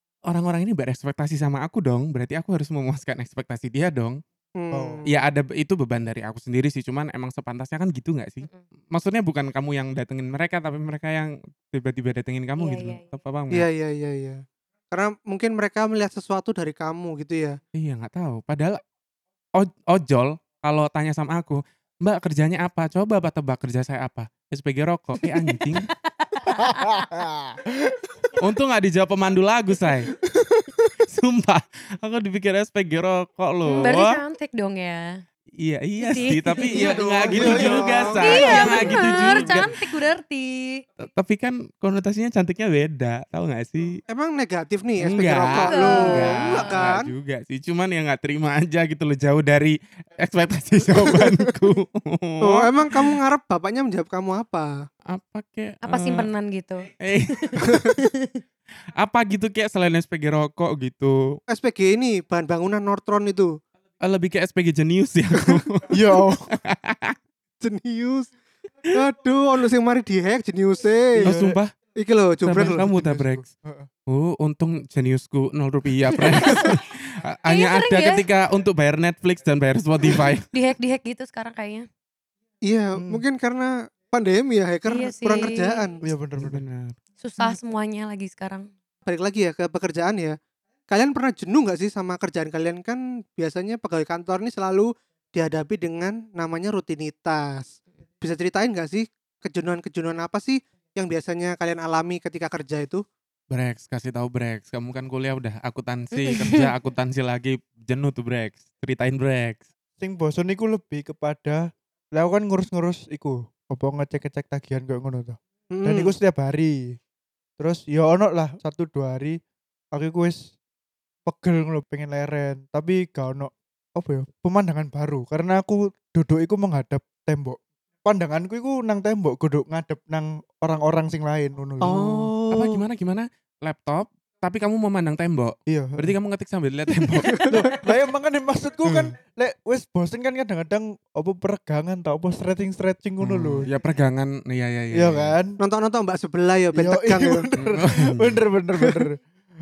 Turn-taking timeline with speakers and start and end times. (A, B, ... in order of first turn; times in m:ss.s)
0:00.3-0:04.2 A
0:04.6-0:05.1 B
0:04.7-0:05.0 C
0:05.1-0:13.7 A
0:12.6-0:13.1 D
0:13.5-0:17.6 B
0:17.8-0:18.8 A
0:19.6-0:25.9 A
0:25.3-0:27.1 D
0:26.6-0:28.3 C
0:28.4-0:30.1 A
0:30.3-0:30.9 C
0:31.1-0:34.2 A
0:33.7-0:33.9 B
0:33.8-0:35.2 D
0:35.6-0:39.7 A
0:36.0-0:36.9 D
0:36.7-0:39.4 B
0:37.3-0:39.5 C
0:38.2-0:40.8 D
0:41.0-0:44.0 A
0:44.1-0:47.1 B
0:45.0-0:53.2 A
0:45.7-0:46.8 D
0:52.4-0:54.9 B
0:55.1-0:56.3 A
0:55.8-0:58.4 D
0:57.0-0:57.9 A
0:59.0-1:01.4 A
1:01.5-1:03.6 B
1:04.0-1:05.9 A
1:05.4-1:05.6 B
1:05.9-1:06.5 C
1:06.5-1:07.2 A
1:07.6-1:08.3 B
1:08.9-1:11.3 B
1:11.2-1:11.7 A
1:11.2-1:11.6 C
1:12.0-1:12.9 B
1:12.4-1:13.4 A
1:12.6-1:13.9 C
1:14.1-1:20.5 A
1:16.2-1:16.7 D
1:17.5-1:18.2 D
1:20.5-1:21.9 D
1:22.6-1:26.0 B
1:23.0-1:23.2 C
1:24.9-1:25.9 D
1:26.0-1:26.6 C
1:26.4-1:27.0 A
1:27.2-1:28.7 D
1:29.1-1:30.4 B
1:30.9-1:43.0 B
1:43.5-1:49.7 A
1:46.2-1:46.7 D
1:50.0-1:56.8 C
1:55.7-1:56.1 B
1:57.6-1:59.4 C
1:59.9-2:00.5 C
2:01.3-2:12.3 C
2:11.8-2:12.8 B
2:12.5-2:17.8 A
2:15.7-2:16.2 C
2:17.2-2:17.6 B
2:17.5-2:23.7 C
2:18.8-2:19.1 A
2:23.2-2:25.3 A
2:24.9-2:25.6 C
2:25.6-2:27.5 B
2:26.8-2:29.2 C
2:27.6-2:28.4 A
2:28.8-2:29.1 B